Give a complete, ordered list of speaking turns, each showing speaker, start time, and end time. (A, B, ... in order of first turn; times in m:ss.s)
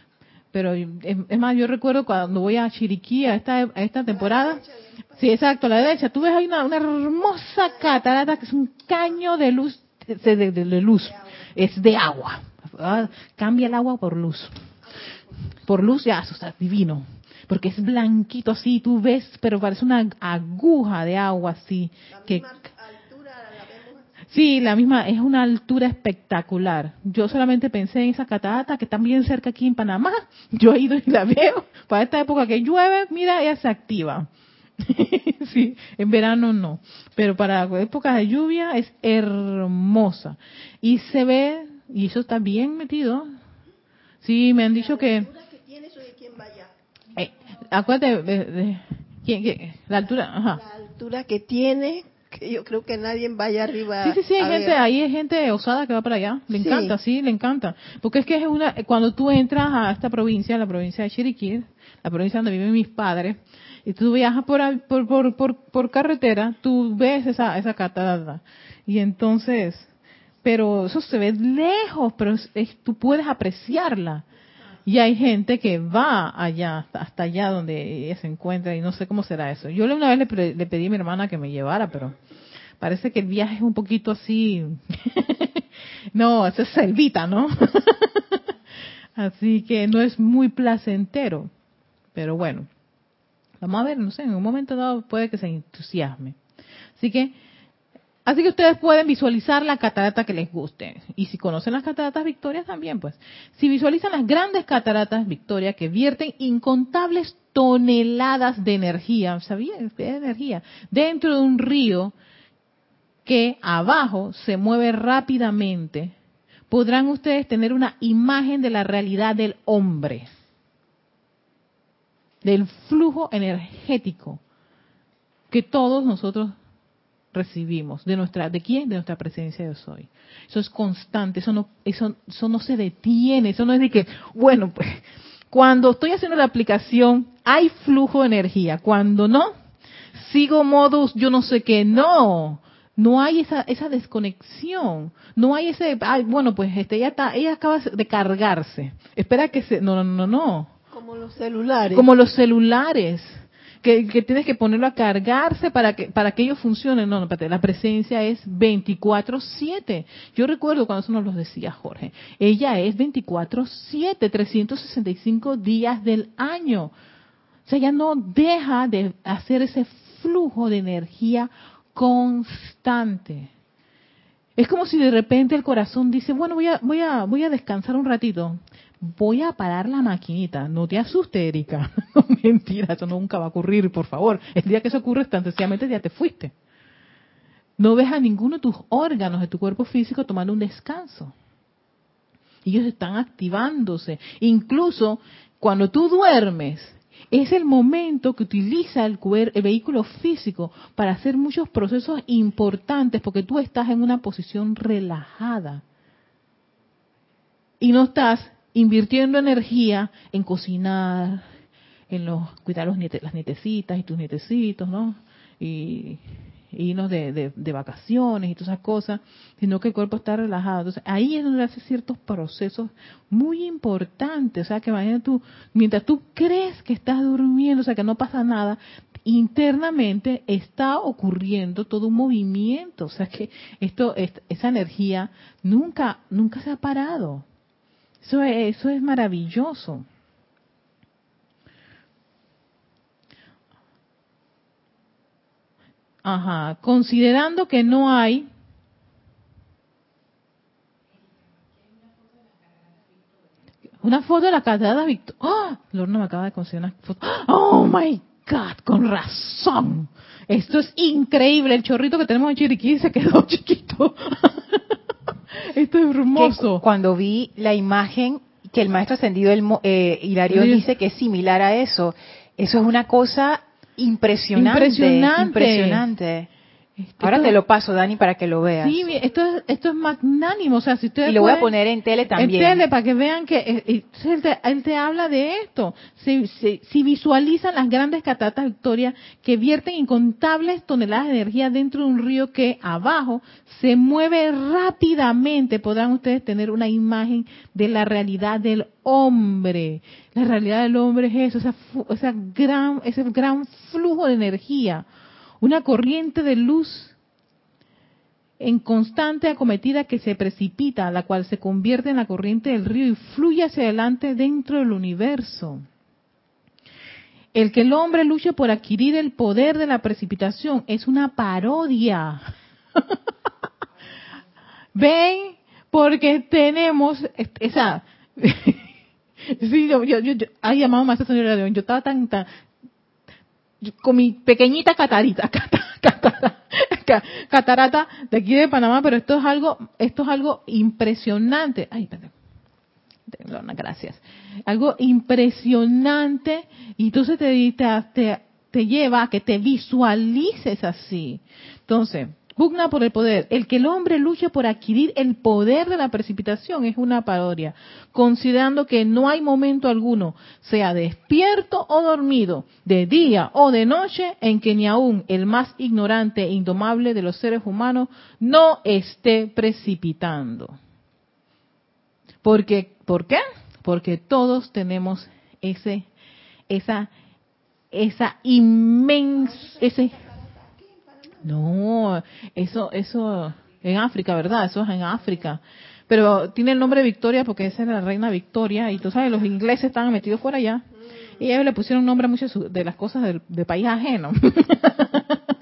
0:00.5-0:04.6 A
0:04.2-0:05.0 B
0:05.2-0:14.5 A
0:15.6-0:22.4 A
0:22.1-0:24.1 B
0:24.3-0:34.3 A
0:34.8-0:43.3 A
0:44.2-0:45.3 A
0:44.6-0:46.7 B
0:47.2-0:50.6 A
0:50.5-0:54.8 B
0:54.0-1:09.9 A
0:56.5-0:57.0 B
1:10.4-1:14.2 A
1:14.9-1:22.2 A
1:22.8-1:25.6 A
1:26.1-1:28.4 A
1:29.2-1:31.5 A
1:32.2-1:32.7 A
1:33.6-1:36.4 A
1:37.0-1:37.4 A
1:38.2-1:52.1 A
1:53.3-1:56.2 A
1:56.7-2:00.3 A
2:02.4-2:04.4 A
2:05.5-2:06.6 A
2:07.3-2:19.5 A
2:20.2-2:30.7 A
2:30.9-2:32.1 B
2:31.9-2:46.9 A
2:47.7-2:53.5 A
2:54.6-3:06.5 A
3:07.8-3:11.3 A
3:12.6-3:25.8 A
3:27.8-3:31.4 A
3:32.1-3:36.2 A
3:36.7-3:57.4 A
3:58.2-4:00.0 A
4:06.2-4:08.5 A
4:14.0-4:24.8 A
4:25.5-4:26.8 A
4:26.4-4:36.5 C
4:30.5-4:30.9 A
4:34.6-4:36.1 A
4:37.0-4:37.6 A
4:37.2-4:39.0 C
4:38.8-4:41.7 A
4:41.2-4:42.8 C
4:42.4-5:05.0 A
5:05.6-5:07.2 A
5:08.6-5:15.8 A
5:17.5-5:22.4 A
5:25.0-5:28.8 A
5:29.4-5:32.5 A
5:33.8-5:42.3 A
5:43.3-6:10.8 A
6:12.4-6:16.1 A
6:16.7-6:17.1 A
6:17.9-6:20.2 A
6:19.6-6:21.4 B
6:21.4-6:30.8 A
6:31.4-6:35.4 A